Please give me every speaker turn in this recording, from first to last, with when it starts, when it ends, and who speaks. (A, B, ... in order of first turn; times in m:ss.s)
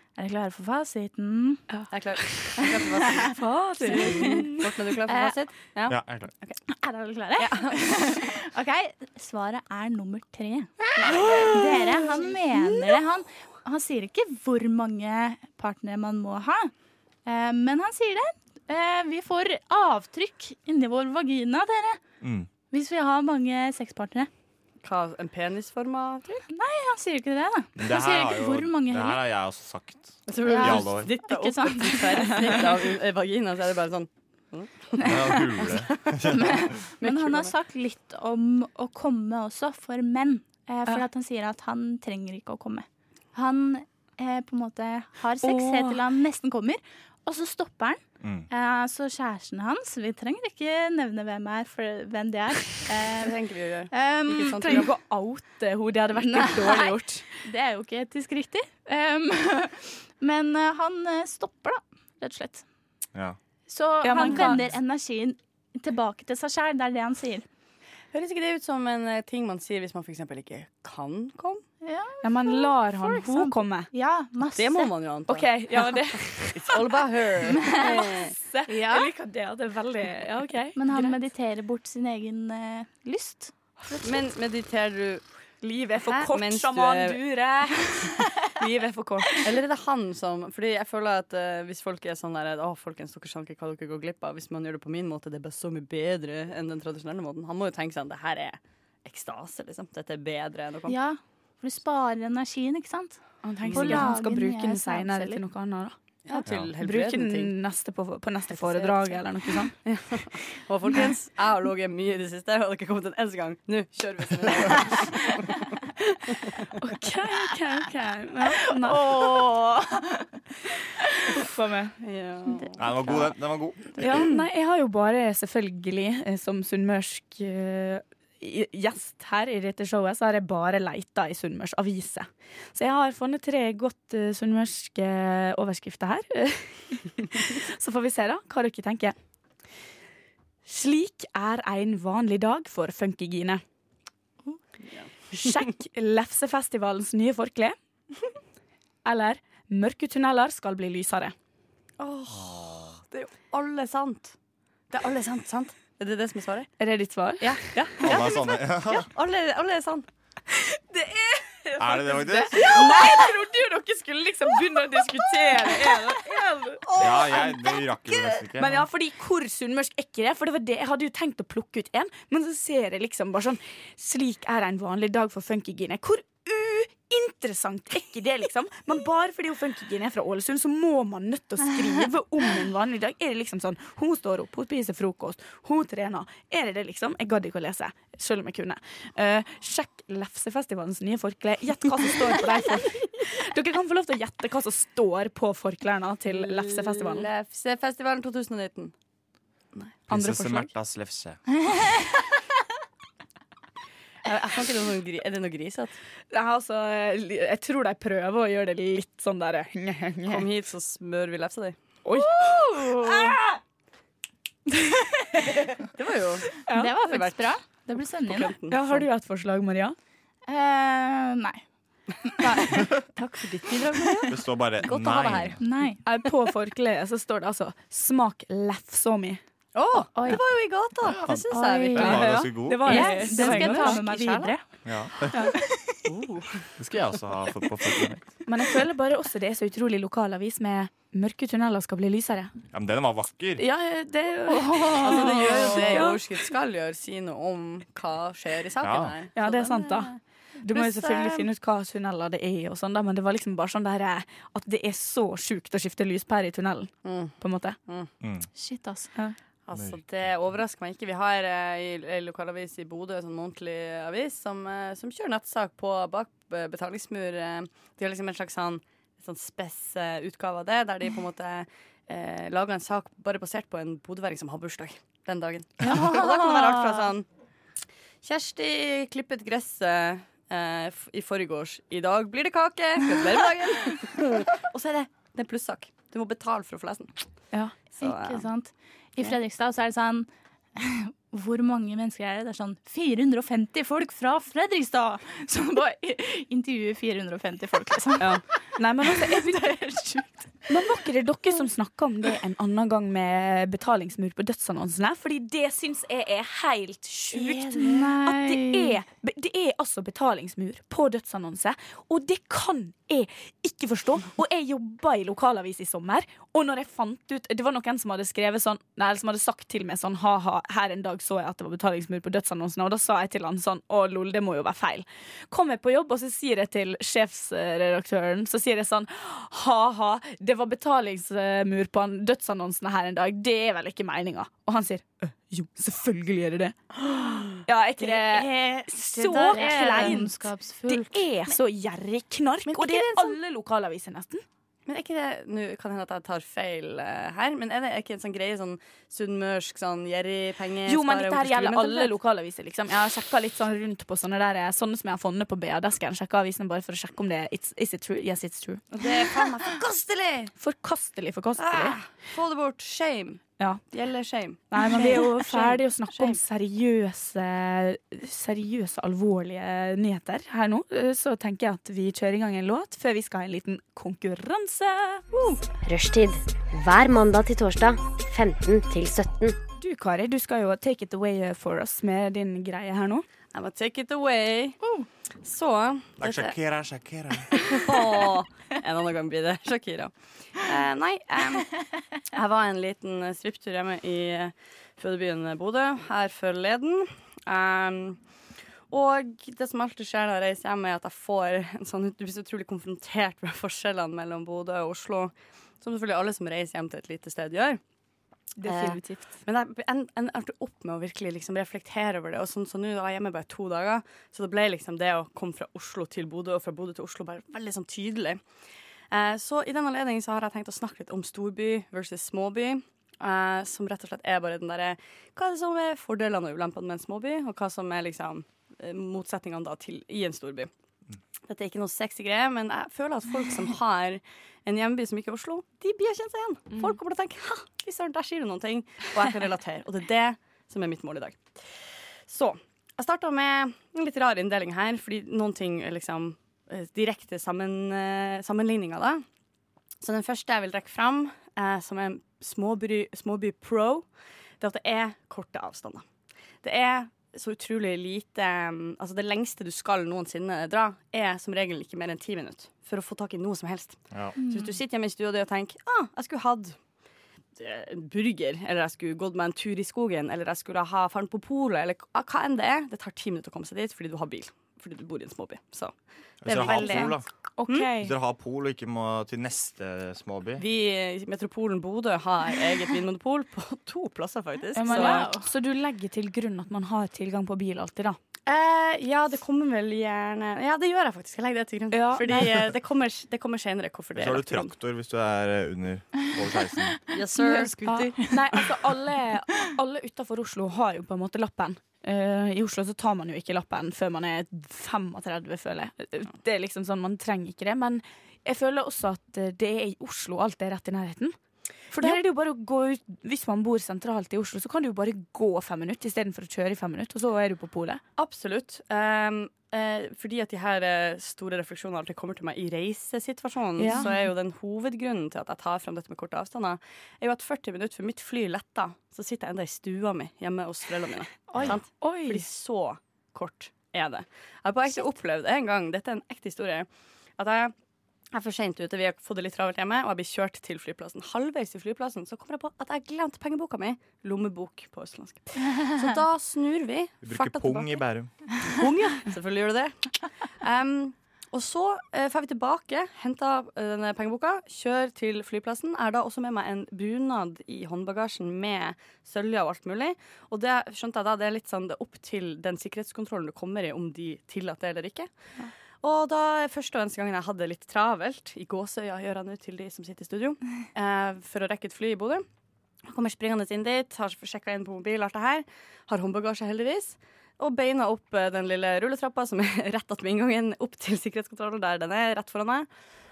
0:00.2-0:01.6 A
0:01.7-0:02.6 B
0:01.9-0:03.3 C
0:03.1-0:04.5 A
0:03.3-0:04.6 B
0:03.9-0:06.6 C
0:05.1-0:05.3 A
0:05.9-0:06.3 D
0:06.7-0:16.7 A
0:07.4-0:07.9 C
0:11.0-0:12.0 C
0:17.2-0:22.0 A
0:22.2-0:22.5 D
0:22.7-0:24.3 A
0:24.8-0:26.4 C
0:26.5-0:29.2 A
0:27.8-0:31.1 D
0:30.3-0:36.1 C
0:30.4-0:32.5 A
0:35.0-0:36.7 D
0:36.3-0:53.3 A
0:37.0-0:37.5 C
0:45.4-0:46.0 B
0:48.2-0:48.5 D
0:53.2-0:54.9 C
0:53.9-0:54.9 A
0:54.6-0:57.2 B
0:56.2-1:02.6 A
1:03.7-1:07.4 A
1:04.0-1:04.7 B
1:08.1-1:11.6 C
1:11.8-1:14.9 A
1:12.2-1:13.9 B
1:14.6-1:18.3 C
1:15.3-1:16.8 B
1:17.5-1:18.1 A
1:17.8-1:20.8 B
1:18.7-1:19.1 A
1:20.8-1:23.5 A
1:23.8-1:24.1 B
1:24.0-1:25.2 C
1:25.6-1:29.4 B
1:26.0-1:27.2 C
1:29.2-1:41.0 C
1:40.9-1:45.4 A
1:43.4-1:46.0 B
1:43.6-1:44.1 C
1:46.2-1:47.5 C
1:46.5-1:46.7 D
1:46.6-1:49.7 B
1:48.5-1:55.6 C
1:56.8-1:59.3 B
1:58.7-2:00.0 A
1:58.9-1:59.6 C
2:01.4-2:01.9 B
2:02.0-2:03.3 C
2:02.8-2:04.2 D
2:04.0-2:19.2 B
2:04.0-2:04.3 C
2:20.6-2:23.6 B
2:25.3-2:27.8 B
2:29.0-2:31.3 B
2:32.0-2:34.3 C
2:32.3-2:32.8 D
2:34.9-2:36.7 C
2:36.8-2:37.7 B
2:37.4-2:40.1 C
2:38.0-2:39.1 D
2:40.5-2:46.8 B
2:41.8-2:42.6 D
2:42.6-2:43.1 C
2:46.8-2:47.5 C
2:47.0-2:48.9 D
2:48.6-3:17.3 B
3:16.3-3:18.9 C
3:20.1-3:21.4 D
3:20.1-3:20.7 B
3:24.2-3:26.0 C
3:26.3-3:30.4 B
3:30.2-3:31.8 C
3:32.0-3:33.4 B
3:32.1-3:33.4 A
3:35.9-3:37.3 C
3:36.6-3:37.0 B
3:36.7-3:38.5 A
3:38.2-3:39.0 C
3:38.7-3:40.0 B
3:40.4-3:41.6 A
3:42.2-3:43.0 A
3:42.4-3:45.6 C
3:43.7-3:44.3 A
3:44.3-3:45.6 D
3:45.6-3:46.0 A
3:46.0-3:49.4 B
3:49.7-3:52.4 C
3:50.1-3:50.4 A
3:51.0-3:53.1 D
3:51.5-3:54.6 A
3:52.0-3:54.5 B
3:53.0-3:54.3 C
3:54.8-3:55.5 D
3:56.0-3:56.7 C
3:56.8-3:58.3 D
3:58.4-4:02.5 B
4:02.7-4:03.6 D
4:03.6-4:06.2 B
4:04.7-4:05.0 A
4:04.8-4:10.1 C
4:08.8-4:09.1 D
4:09.4-4:17.8 B
4:10.7-4:11.5 C
4:17.0-4:18.1 C
4:18.2-4:18.5 D
4:18.5-4:19.1 A
4:19.7-4:37.2 C
4:19.7-4:20.3 D
4:35.8-4:37.0 A
4:38.2-4:47.1 C
4:48.0-4:48.5 C
4:48.0-4:58.4 A
4:58.2-4:59.8 B
4:59.1-5:00.3 A
5:00.7-5:40.3 B
5:07.3-5:09.0 A
5:38.0-5:41.2 A
5:39.3-5:40.2 C
5:40.9-5:44.4 B
5:42.7-5:43.2 C
5:44.9-5:52.2 C
5:50.9-5:59.0 B
5:58.9-6:00.5 C
6:00.6-6:02.0 B
6:01.6-6:06.4 C
6:04.7-6:15.5 B
6:15.8-6:19.6 E
6:19.8-6:23.2 B
6:23.5-6:24.8 C
6:25.4-6:26.6 C
6:26.2-6:27.8 D
6:27.5-6:31.7 C
6:32.3-6:38.2 C
6:38.9-6:47.8 C
6:48.6-6:49.3 B
6:48.6-6:58.4 C
6:59.1-7:10.7 C
7:11.5-7:21.4 C
7:22.3-7:29.2 C
7:30.0-7:34.0 C
7:34.6-7:36.0 C
7:36.6-7:46.8 C
7:44.4-7:44.7 A
7:47.6-7:57.9 C
7:56.4-7:57.2 D
7:56.6-7:58.1 B
7:57.9-8:00.6 D
8:00.6-8:05.3 C
8:04.7-8:08.2 B
8:04.8-8:05.5 A
8:08.4-8:14.7 C
8:11.9-8:12.5 B
8:14.1-8:17.0 D
8:17.1-8:18.6 C
8:17.8-8:31.4 B
8:31.9-8:38.0 B
8:38.2-8:56.9 C
8:43.8-8:44.1 B
8:51.5-8:52.4 B
8:57.4-8:57.7 C
8:58.3-9:08.0 C
9:07.2-9:08.3 D
9:08.6-9:25.3 C
9:26.0-9:32.4 C
9:33.1-9:42.9 C